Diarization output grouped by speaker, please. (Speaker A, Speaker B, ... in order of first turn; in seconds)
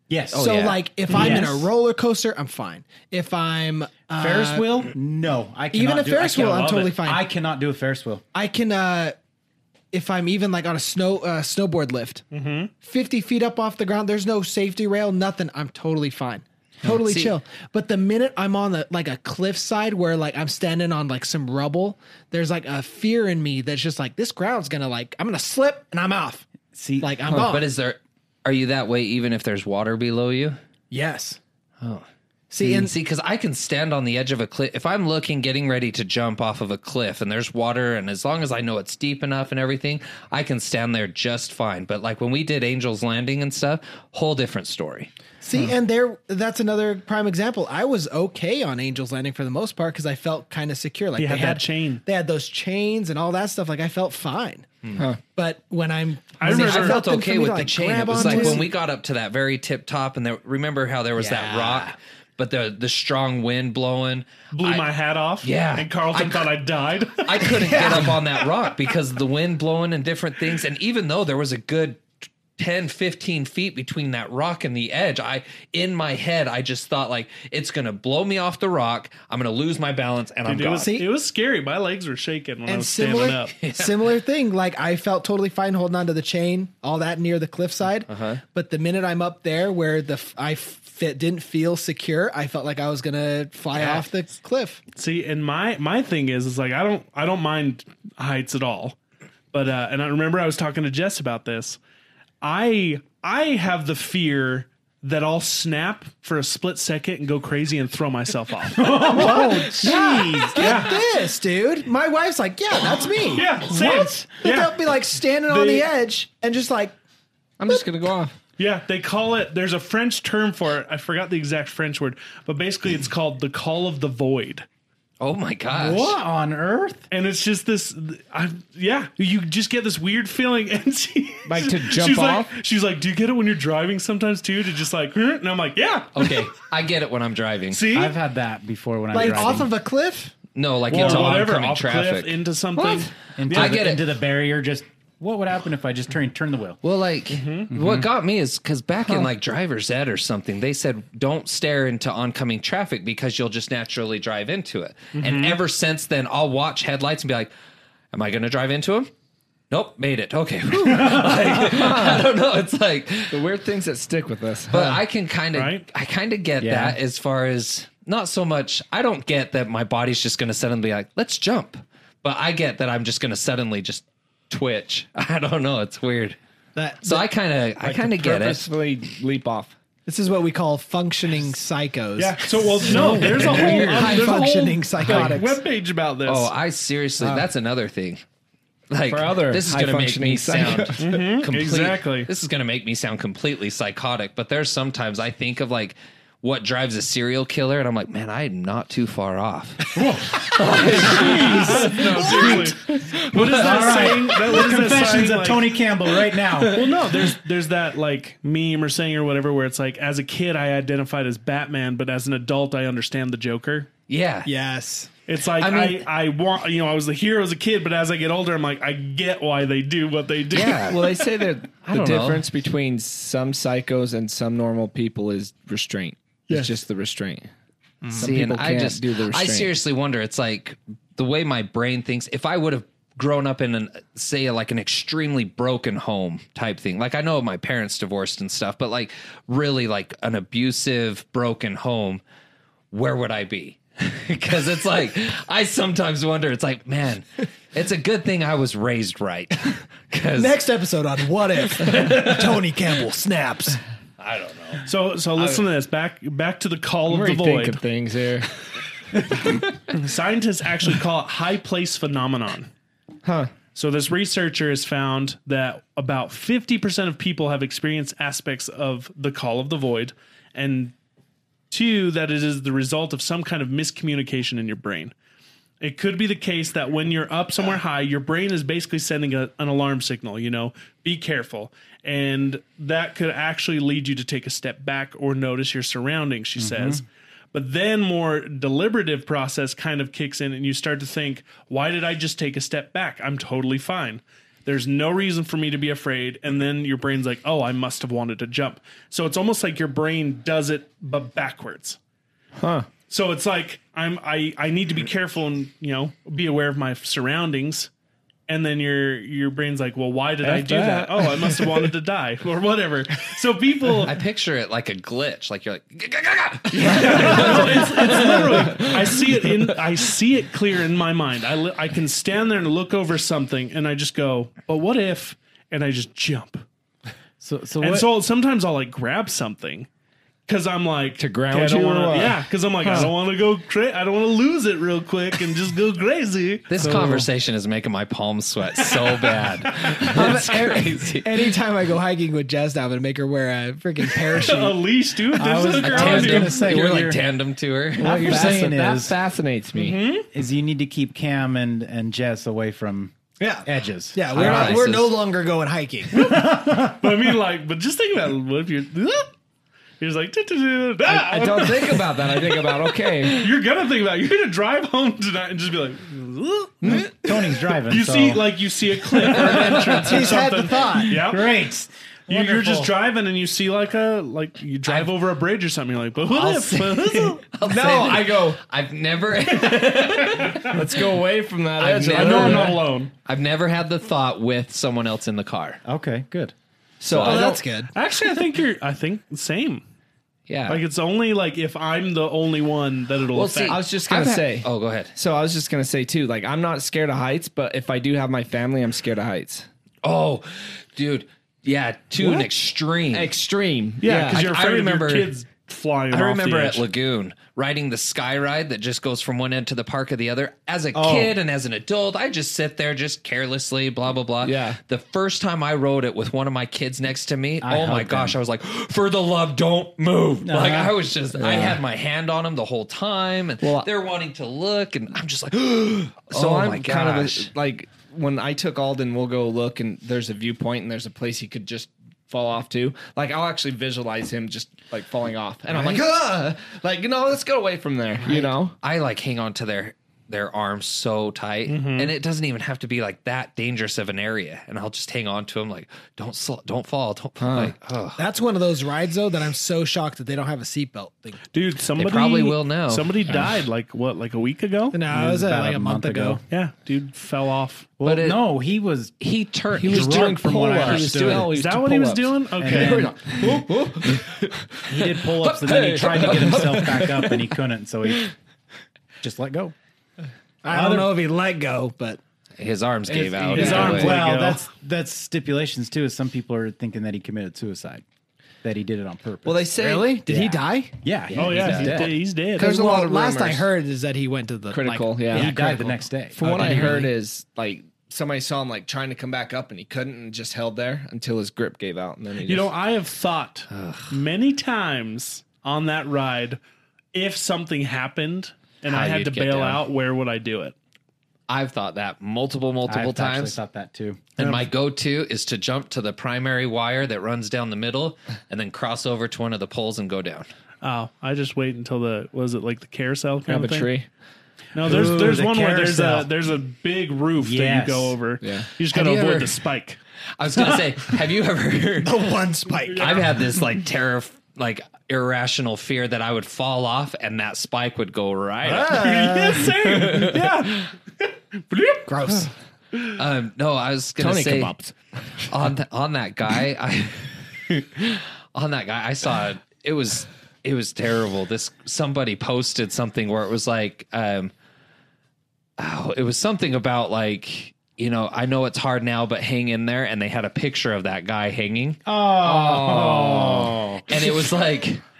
Speaker A: 0.1-1.7, 4.2-8.2, 26.7-27.2, 108.8-110.9, 125.7-127.0, 137.9-139.7, 143.3-146.8, 147.7-148.1, 166.6-167.0, 199.9-202.8, 203.3-207.0, 286.6-287.0, 327.4-328.1, 336.8-337.3, 345.4-347.2, 348.0-349.1, 350.3-354.9, 356.1-357.3, 366.9-368.5, 369.2-370.4, 371.0-372.9, 385.8-386.5, 410.9-411.4, 417.6-418.4, 420.4-421.0, 455.1-456.4, 458.0-459.2, 459.9-461.5, 462.6-464.1, 464.9-468.3, 469.2-469.7, 470.7-471.1, 473.8-478.0, 478.6-479.7, 480.2-482.1, 485.3-487.0, 502.8-504.7, 514.8-516.3, 517.4-518.2, 552.0-554.5
Speaker B: 0.3-4.9, 5.7-7.2, 8.3-9.2, 9.9-12.2, 12.8-26.5, 27.0-27.7, 30.9-31.4, 32.5-32.9, 45.4-54.7, 55.3-58.7, 61.2-61.9, 67.7-68.1, 80.7-81.1, 82.7-94.8, 108.9-116.9, 139.1-140.3, 176.8-177.3, 180.1-185.6, 214.4-215.1, 228.0-228.3, 250.3-253.8, 340.0-344.8, 353.4-356.2, 369.8-371.1, 387.1-387.9, 448.2-451.4, 454.9-456.4, 470.6-472.2, 479.8-480.9, 482.6-486.1, 522.0-523.3, 528.7-529.7, 532.0-532.5
Speaker C: 0.3-0.8, 17.1-17.3, 27.3-30.6, 31.8-32.0, 32.6-45.1, 56.4-64.9, 65.4-66.5, 67.2-80.9, 83.6-83.9, 88.1-88.4, 93.7-94.0, 125.2-126.1, 136.1-137.9, 139.2-139.6, 140.5-142.4, 143.5-144.1, 146.8-157.5, 158.1-159.1, 159.7-163.4, 164.7-176.4, 177.0-178.7, 183.1-184.1, 186.2-188.2, 188.9-202.6, 203.2-204.3, 214.1-214.5, 215.6-216.1, 220.5-221.1, 221.8-222.4, 228.2-242.2, 242.9-250.6, 254.2-255.6, 314.0-318.9, 336.7-341.4, 345.8-348.8, 354.3-355.1, 374.9-375.1, 376.2-380.9, 381.8-385.8, 387.1-387.4, 390.5-390.8, 393.3-395.1, 400.0-403.3, 404.3-405.3, 406.1-427.5, 435.7-436.0, 438.3-448.2, 452.0-453.6, 458.0-458.4, 459.2-461.0, 465.4-466.7, 472.6-474.2, 481.4-482.1, 493.7-494.2, 498.9-499.8, 501.5-503.6, 504.4-510.5, 518.9-519.7, 520.4-522.2, 523.0-529.0, 529.7-530.5, 533.1-534.7, 535.5-544.5, 545.8-555.0
Speaker D: 6.4-6.8, 12.3-12.7, 51.2-52.0, 56.4-57.0, 58.2-58.6, 64.5-68.0, 80.4-83.5, 94.9-99.0, 99.5-101.8, 102.4-111.0, 113.1-114.8, 115.5-115.9, 118.6-124.7, 127.1-136.5, 137.7-138.2, 140.9-143.9, 147.3-147.7, 155.1-155.6, 165.5-165.8, 182.2-186.5, 191.0-192.3, 200.9-205.7, 206.6-213.9, 215.3-221.0, 254.8-257.8, 259.2-262.7, 263.7-270.9, 271.7-275.1, 275.8-302.0, 303.1-307.9, 308.5-314.1, 316.8-326.6, 327.8-329.9, 330.4-337.1, 338.8-339.9, 344.3-346.7, 349.7-350.3, 356.1-359.3, 360.0-367.0, 367.8-371.5, 372.3-377.5, 382.1-383.1, 387.9-389.8, 390.7-393.8, 404.0-406.9, 441.6-442.1, 451.5-455.0, 456.5-457.9, 461.2-463.3, 473.5-474.7, 481.3-482.7, 486.4-487.1, 492.4-496.6, 497.1-500.7, 510.8-513.9, 514.7-520.0, 522.9-523.3, 528.8-532.1
Speaker E: 117.6-118.3, 131.4-132.5, 142.7-143.1, 160.9-162.3, 163.3-165.0, 177.8-179.7, 189.0-191.3, 220.7-227.5, 228.1-229.7, 257.1-258.6, 263.2-263.5, 302.6-302.9, 310.4-311.9, 318.1-319.7, 331.2-332.4, 348.0-350.0, 354.3-354.8, 361.0-363.5, 366.8-367.4, 377.6-378.6, 380.5-382.8, 387.0-387.6, 393.7-399.7, 402.2-402.5, 403.1-404.4, 414.4-414.8, 421.3-421.8, 423.6-423.9, 426.3-438.8, 447.4-447.7, 459.8-467.4, 473.1-474.1, 479.4-480.1, 482.5-483.7, 484.7-485.5, 486.4-492.7, 513.5-514.1, 518.4-518.7, 534.2-535.5, 552.5-553.3